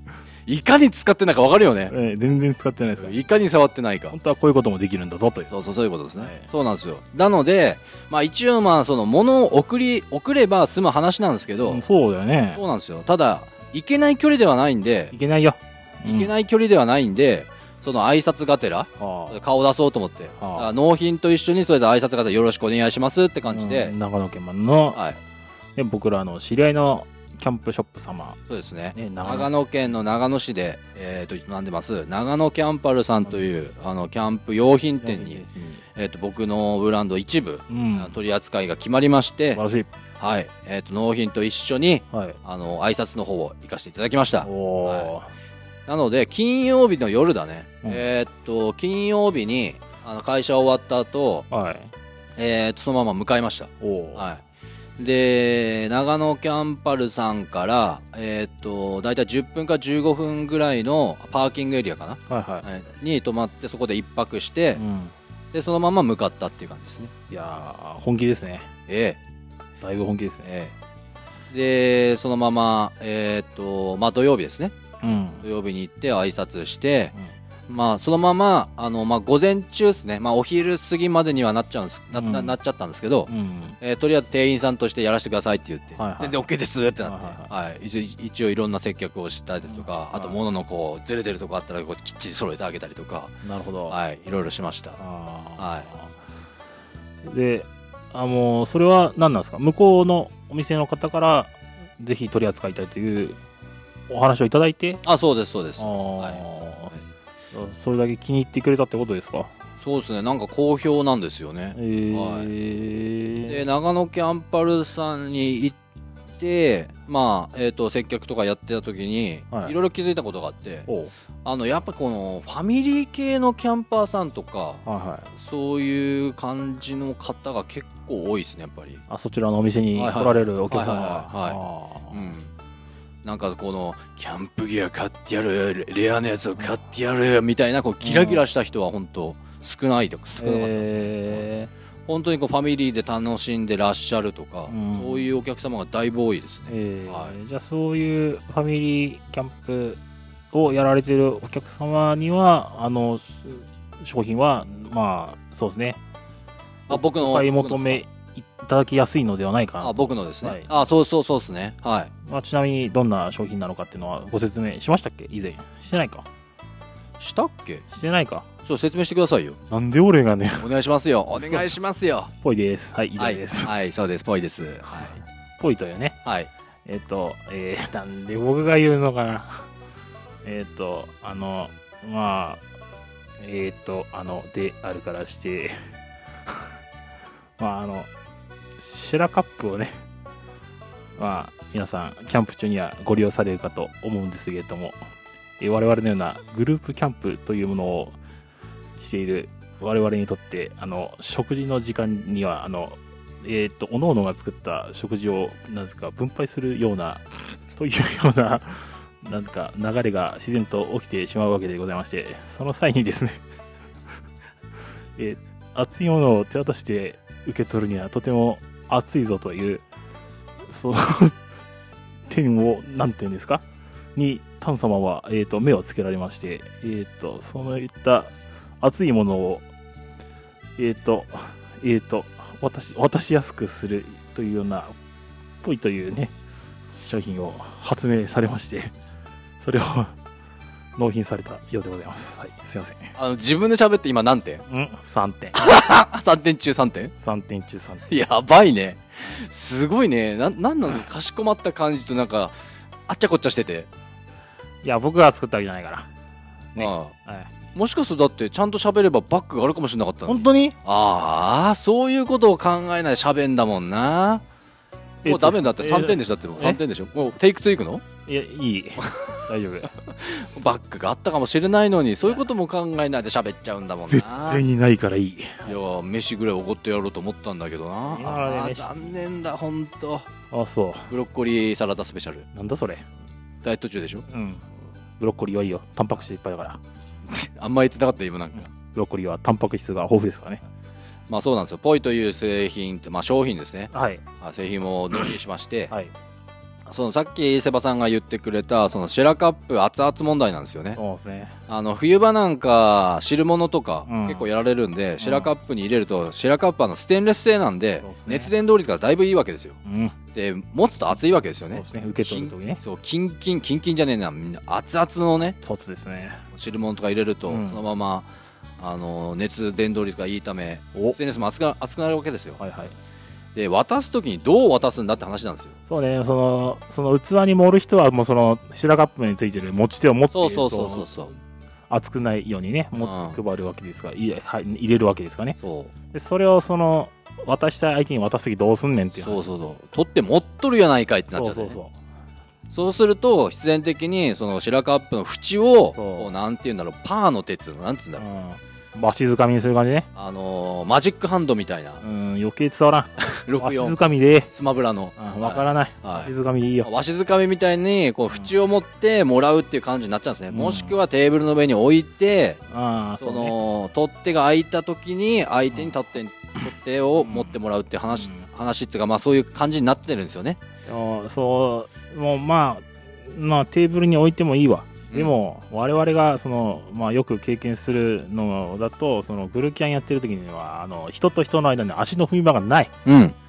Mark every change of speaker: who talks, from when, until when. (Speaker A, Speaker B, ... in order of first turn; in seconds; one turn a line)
Speaker A: 0.5-1.9
Speaker B: 1.9-3.2
Speaker A: 3.0-4.2
Speaker B: 4.1-5.5
Speaker A: 5.5-11.8
Speaker B: 6.2-6.5
Speaker B: 11.7-12.6
Speaker A: 12.6-15.1
Speaker B: 15.1-16.3
Speaker A: 16.0-23.9
Speaker B: 19.0-19.4
Speaker B: 20.4-20.7
Speaker B: 23.5-25.0
Speaker A: 24.9-25.2
Speaker B: 25.8-28.4
Speaker A: 28.5-35.4
Speaker B: 28.9-29.5
Speaker B: 35.0-35.8
Speaker A: 36.0-39.6
Speaker B: 37.7-38.2
Speaker B: 39.5-39.9
Speaker A: 40.2-45.1
Speaker B: 42.1-42.4
Speaker B: 44.4-45.3
Speaker A: 45.9-51.5
Speaker B: 51.5-51.9
Speaker A: 52.4-54.4
Speaker B: 53.8-54.2
Speaker A: 55.0-64.8
Speaker B: 62.3-62.6
Speaker B: 64.8-65.1
Speaker A: 65.5-67.1
Speaker B: 67.3-68.7
Speaker A: 68.9-69.2
Speaker B: 69.8-70.5
Speaker A: 70.4-70.7
Speaker A: 71.5-74.8
Speaker B: 75.0-75.4
Speaker A: 75.4-77.1
Speaker A: 77.7-93.4
Speaker B: 82.1-82.5
Speaker B: 83.3-83.8
Speaker B: 86.0-86.4
Speaker B: 87.0-87.5
Speaker B: 89.7-90.4
Speaker B: 93.4-94.0
Speaker A: 93.9-95.0
Speaker B: 95.0-96.1
Speaker A: 95.6-95.9
Speaker B: 97.2-103.4
Speaker B: 104.1-105.0
Speaker A: 105.0-107.0
Speaker B: 105.8-106.9
Speaker B: 107.5-109.5
Speaker A: 109.8-112.5
Speaker B: 111.8-113.7
Speaker A: 113.5-115.8
Speaker A: 116.4-120.9
Speaker B: 120.9-121.1
Speaker A: 121.4-129.0
Speaker B: 124.9-125.3
Speaker B: 129.1-132.2
Speaker A: 129.9-132.5
Speaker A: 133.2-141.5
Speaker B: 138.0-138.4
Speaker B: 140.4-141.7
Speaker A: 142.1-147.3
Speaker B: 144.7-145.3
Speaker B: 146.7-150.0
Speaker B: 150.5-156.0
Speaker A: 156.9-158.0
Speaker B: 156.9-160.7
Speaker A: 159.8-162.1
Speaker B: 162.2-166.3
Speaker A: 167.2-167.8
Speaker B: 167.9-168.5
Speaker A: 168.6-169.6
Speaker B: 169.7-170.7
Speaker A: 170.6-172.3
Speaker B: 171.3-171.8
Speaker B: 172.3-173.7
Speaker A: 173.2-175.2
Speaker B: 175.0-176.2
Speaker A: 176.2-176.5
Speaker B: 176.9-179.7
Speaker B: 180.4-182.6
Speaker B: 183.4-185.8
Speaker B: 187.6-188.1
Speaker B: 188.8-189.9
Speaker B: 191.2-195.0
Speaker B: 195.6-198.2
Speaker B: 199.0-213.4
Speaker B: 215.2-219.8
Speaker B: 220.7-221.4
Speaker B: 222.3-223.6
Speaker B: 224.2-229.7
Speaker B: 230.8-234.9
Speaker B: 235.6-236.3
Speaker B: 237.0-238.9
Speaker B: 239.6-240.1
Speaker B: 241.0-243.1
Speaker A: 243.2-244.6
Speaker B: 244.7-245.6
Speaker A: 245.5-247.1
Speaker B: 247.2-248.1
Speaker A: 248.1-252.5
Speaker A: 253.1-253.9
Speaker B: 254.8-256.1
Speaker B: 256.8-257.5
Speaker A: 256.8-257.1
Speaker A: 257.8-264.4
Speaker B: 260.3-260.8
Speaker B: 265.2-266.8
Speaker A: 265.2-268.1
Speaker B: 268.3-269.9
Speaker A: 269.0-269.4
Speaker A: 270.0-274.6
Speaker B: 274.1-275.8
Speaker A: 275.6-280.3
Speaker B: 278.1-279.1
Speaker B: 280.5-281.1
Speaker A: 281.1-282.5
Speaker B: 282.5-283.1
Speaker A: 283.6-284.3
Speaker B: 284.3-284.7
Speaker B: 285.2-286.8
Speaker A: 287.3-288.7
Speaker B: 288.6-290.6
Speaker A: 291.3-295.9
Speaker B: 293.9-294.2
Speaker A: 296.9-301.0
Speaker B: 301.0-301.6
Speaker A: 301.7-309.8
Speaker B: 304.1-304.5
Speaker B: 305.2-305.5
Speaker B: 308.0-308.5
Speaker B: 309.9-310.2
Speaker A: 310.3-315.6
Speaker B: 311.7-312.8
Speaker B: 315.6-316.4
Speaker A: 316.5-322.6
Speaker B: 317.5-317.8
Speaker B: 322.6-322.9
Speaker A: 323.6-325.8
Speaker B: 325.9-331.1
Speaker A: 330.3-331.3
Speaker B: 331.9-335.6
Speaker A: 333.0-333.4
Speaker A: 335.6-335.9
Speaker B: 336.1-339.4
Speaker A: 339.2-341.8
Speaker B: 341.3-341.9
Speaker A: 342.7-348.2
Speaker B: 345.9-346.3
Speaker B: 348.2-350.1
Speaker A: 350.1-352.0
Speaker B: 352.0-354.5
Speaker A: 353.2-354.0
Speaker A: 354.5-356.3
Speaker B: 355.2-356.9
Speaker A: 356.8-362.6
Speaker B: 360.5-361.0
Speaker B: 362.7-363.6
Speaker A: 363.2-370.6
Speaker B: 367.2-367.6
Speaker B: 368.1-368.4
Speaker B: 370.9-382.9
Speaker A: 383.1-383.4